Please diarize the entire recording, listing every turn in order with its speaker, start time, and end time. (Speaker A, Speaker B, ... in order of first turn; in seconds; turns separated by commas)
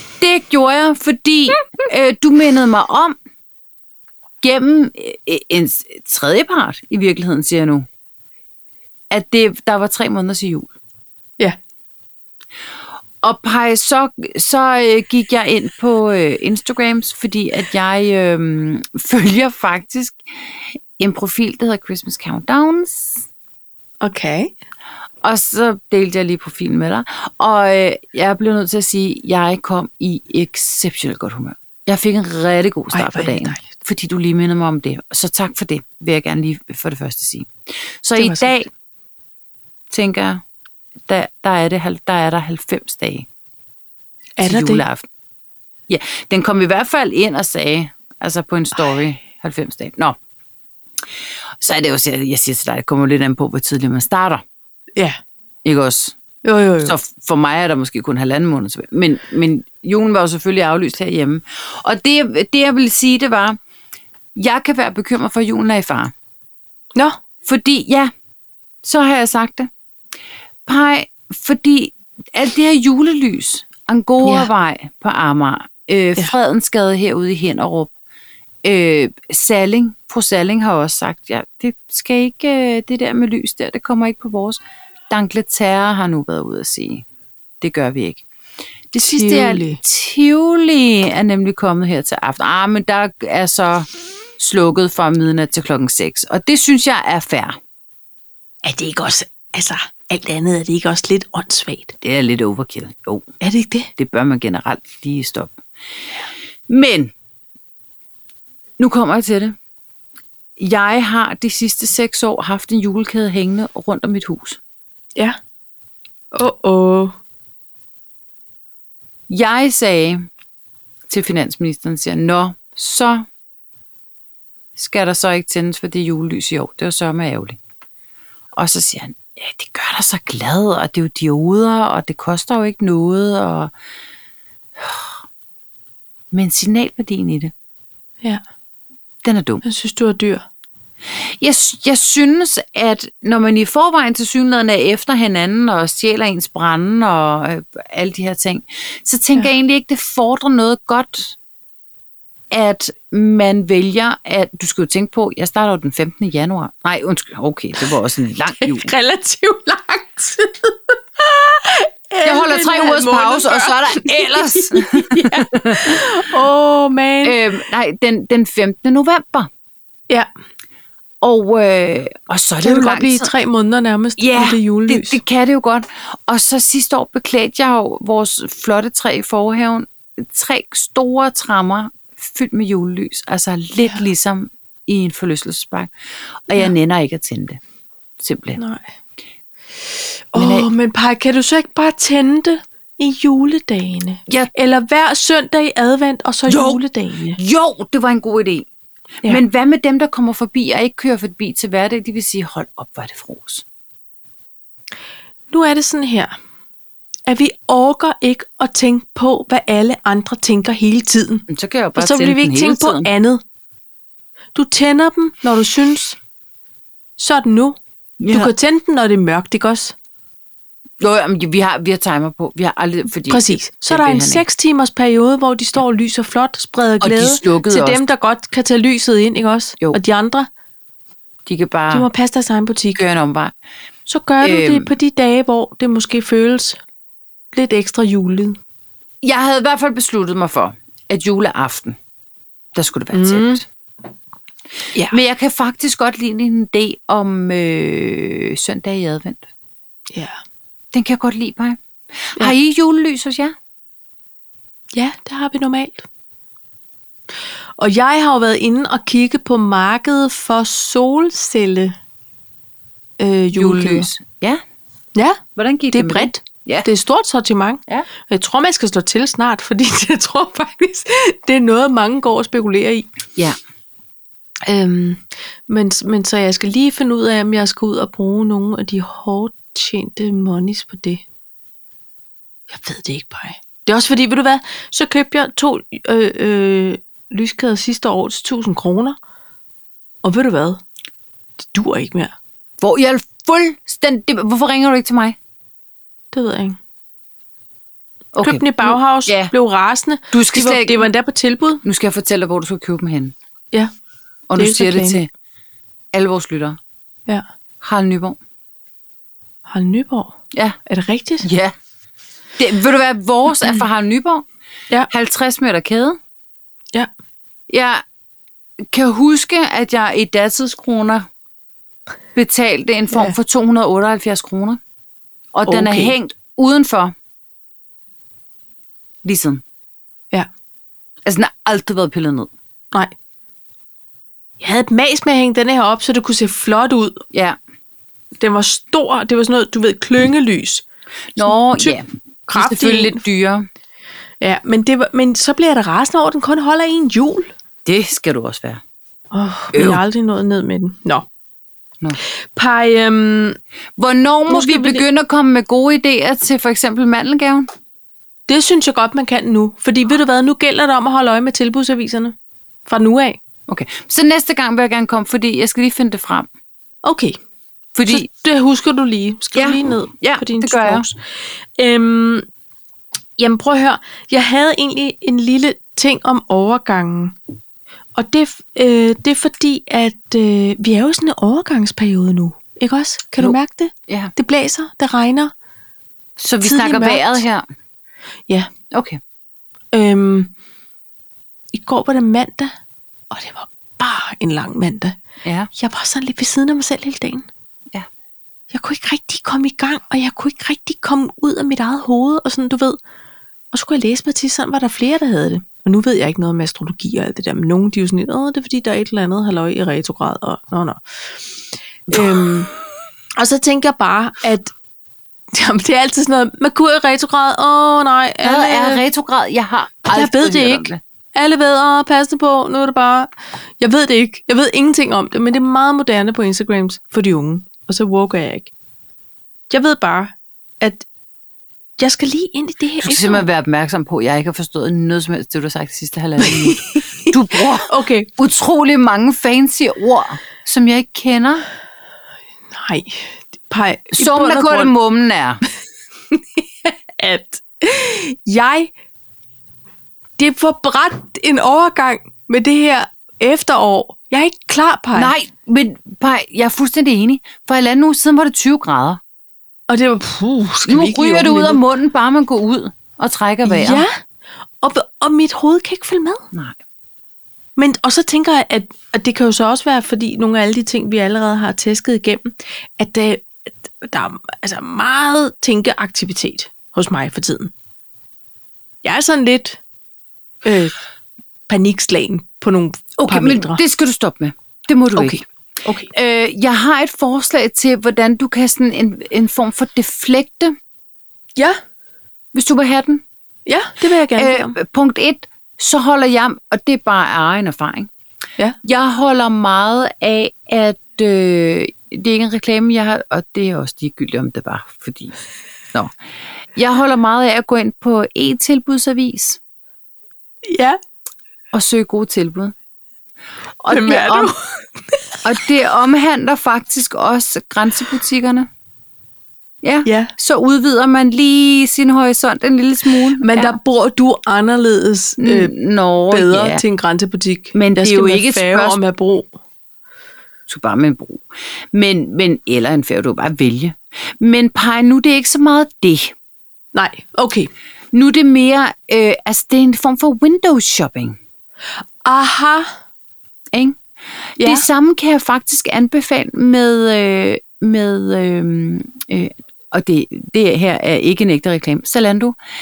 Speaker A: 0.2-3.2, Speaker A: 4.4-7.9, Speaker A: 9.1-10.7, Speaker A: 13.2-23.2, Speaker B: 24.0-24.5, Speaker A: 25.2-38.7, Speaker B: 32.9-33.7, Speaker B: 38.2-38.5, Speaker A: 39.9-40.4, Speaker A: 41.1-43.3, Speaker B: 44.4-44.8, Speaker A: 44.4-45.0, Speaker A: 45.9-50.2, Speaker A: 51.6-54.4, Speaker A: 55.6-56.1, Speaker B: 56.4-57.0, Speaker A: 56.8-63.6, Speaker A: 64.4-66.1, Speaker A: 67.5-68.1, Speaker A: 68.8-69.7, Speaker A: 70.7-77.9, Speaker B: 74.2-74.5, Speaker A: 78.6-87.1, Speaker A: 87.6-88.2, Speaker A: 88.9-97.6, Speaker B: 89.0-89.8, Speaker B: 98.6-101.9, Speaker A: 102.0-103.3, Speaker B: 103.4-103.9, Speaker A: 104.0-105.6, Speaker A: 106.7-107.1, Speaker A: 108.8-109.6, Speaker A: 110.6-114.6, Speaker B: 116.3-117.1, Speaker A: 119.3-120.3, Speaker A: 121.1-123.3, Speaker A: 124.8-127.6, Speaker A: 128.6-133.7, Speaker A: 134.8-135.1, Speaker A: 136.3-137.5, Speaker A: 139.2-139.6, Speaker B: 139.6-140.5, Speaker A: 141.4-151.4, Speaker A: 152.5-158.9, Speaker B: 158.5-167.4, Speaker A: 162.2-166.3, Speaker A: 167.2-169.5, Speaker A: 171.2-173.3, Speaker B: 172.6-175.2, Speaker A: 174.2-185.9, Speaker A: 186.5-187.6, Speaker A: 188.2-188.6, Speaker B: 188.6-188.9, Speaker B: 190.3-197.4, Speaker A: 190.4-190.7, Speaker A: 196.5-196.8, Speaker A: 197.3-198.7, Speaker A: 199.2-203.6, Speaker B: 205.5-206.3, Speaker B: 207.3-211.5, Speaker A: 211.5-213.1, Speaker B: 212.0-213.4, Speaker B: 214.6-216.2, Speaker B: 217.2-217.8, Speaker A: 218.2-218.5, Speaker B: 218.3-219.9, Speaker A: 221.0-224.4, Speaker B: 223.3-230.5, Speaker A: 227.0-228.0, Speaker A: 231.5-232.1, Speaker B: 231.9-233.0, Speaker A: 232.9-233.5, Speaker B: 234.1-236.8, Speaker A: 234.4-234.9, Speaker B: 237.5-238.6, Speaker A: 239.2-242.0, Speaker A: 242.8-243.6, Speaker B: 243.1-243.6, Speaker A: 245.1-249.4, Speaker B: 250.1-250.4, Speaker A: 250.9-253.6, Speaker B: 254.9-256.1, Speaker B: 257.8-262.0, Speaker B: 263.2-264.1, Speaker A: 263.6-264.6, Speaker B: 265.1-265.4, Speaker A: 265.6-266.9, Speaker B: 265.9-273.1, Speaker B: 274.7-281.2, Speaker B: 282.7-289.2, Speaker B: 290.2-290.8, Speaker B: 291.7-292.3, Speaker A: 292.8-295.4, Speaker B: 296.3-296.8, Speaker A: 298.3-299.5, Speaker B: 298.4-301.8, Speaker A: 300.3-301.1, Speaker A: 301.8-303.4, Speaker A: 304.5-305.3, Speaker B: 304.6-305.2, Speaker A: 306.1-306.8, Speaker A: 307.8-308.4, Speaker B: 309.7-310.4, Speaker B: 310.9-311.5, Speaker A: 311.4-311.7, Speaker A: 312.6-314.4, Speaker A: 315.1-316.2, Speaker A: 317.7-318.0, Speaker A: 318.9-321.3, Speaker A: 322.4-324.8, Speaker A: 325.5-327.1, Speaker B: 325.7-326.1, Speaker A: 329.2-329.6, Speaker A: 331.3-332.5, Speaker B: 334.6-337.2, Speaker B: 338.4-340.8, Speaker A: 341.4-343.7, Speaker B: 341.4-343.2, Speaker B: 344.4-347.5, Speaker A: 347.9-348.8, Speaker B: 349.3-351.3, Speaker A: 349.7-350.0, Speaker B: 352.2-353.6, Speaker A: 354.0-357.7, Speaker B: 354.5-355.1, Speaker B: 358.5-362.4, Speaker B: 362.9-363.4, Speaker A: 363.7-366.5, Speaker B: 367.0-367.4, Speaker A: 367.9-368.3, Speaker B: 368.1-371.2, Speaker A: 369.5-371.1, Speaker B: 371.8-372.5, Speaker B: 373.4-377.4, Speaker B: 378.1-385.5, Speaker A: 384.1-384.3, Speaker A: 386.4-387.6, Speaker B: 386.6-387.4, Speaker A: 388.9-389.2, Speaker B: 389.9-390.5, Speaker B: 391.7-392.8, Speaker B: 393.3-395.2, Speaker A: 395.4-395.7, Speaker B: 395.8-397.5, Speaker B: 398.7-403.0, Speaker B: 403.7-411.6, Speaker B: 412.1-412.7, Speaker A: 412.1-412.5, Speaker B: 413.4-414.7, Speaker B: 415.5-419.0, Speaker A: 418.4-421.0, Speaker B: 420.1-428.7, Speaker B: 429.7-431.1, Speaker B: 432.0-433.4, Speaker A: 433.0-441.6, Speaker B: 436.4-438.3, Speaker B: 442.7-444.9, Speaker A: 444.1-445.6, Speaker B: 446.3-448.9, Speaker B: 450.4-455.3, Speaker A: 455.1-459.2, Speaker B: 459.9-461.8, Speaker A: 460.9-464.1, Speaker B: 463.6-464.2, Speaker B: 464.8-466.4, Speaker B: 467.8-477.7, Speaker B: 479.0-479.8, Speaker B: 480.6-481.0, Speaker B: 481.7-483.8, Speaker A: 483.2-485.4, Speaker B: 485.1-486.1, Speaker A: 486.1-490.8, Speaker A: 492.5-493.2, Speaker B: 493.7-494.8, Speaker A: 494.4-498.1, Speaker A: 498.8-505.4, Speaker A: 506.8-509.6, Speaker B: 510.6-511.0, Speaker A: 511.7-512.7, Speaker B: 513.9-515.2, Speaker A: 513.9-514.5, Speaker A: 515.4-518.7, Speaker A: 519.8-523.8, Speaker B: 520.1-520.3, Speaker B: 523.4-525.7, Speaker A: 525.4-526.8, Speaker B: 526.3-529.5, Speaker A: 527.7-529.0, Speaker A: 530.7-536.3, Speaker B: 536.9-537.7, Speaker A: 538.1-541.4, Speaker B: 542.2-543.0, Speaker A: 543.7-544.0, Speaker A: 544.6-552.6, Speaker B: 544.6-544.9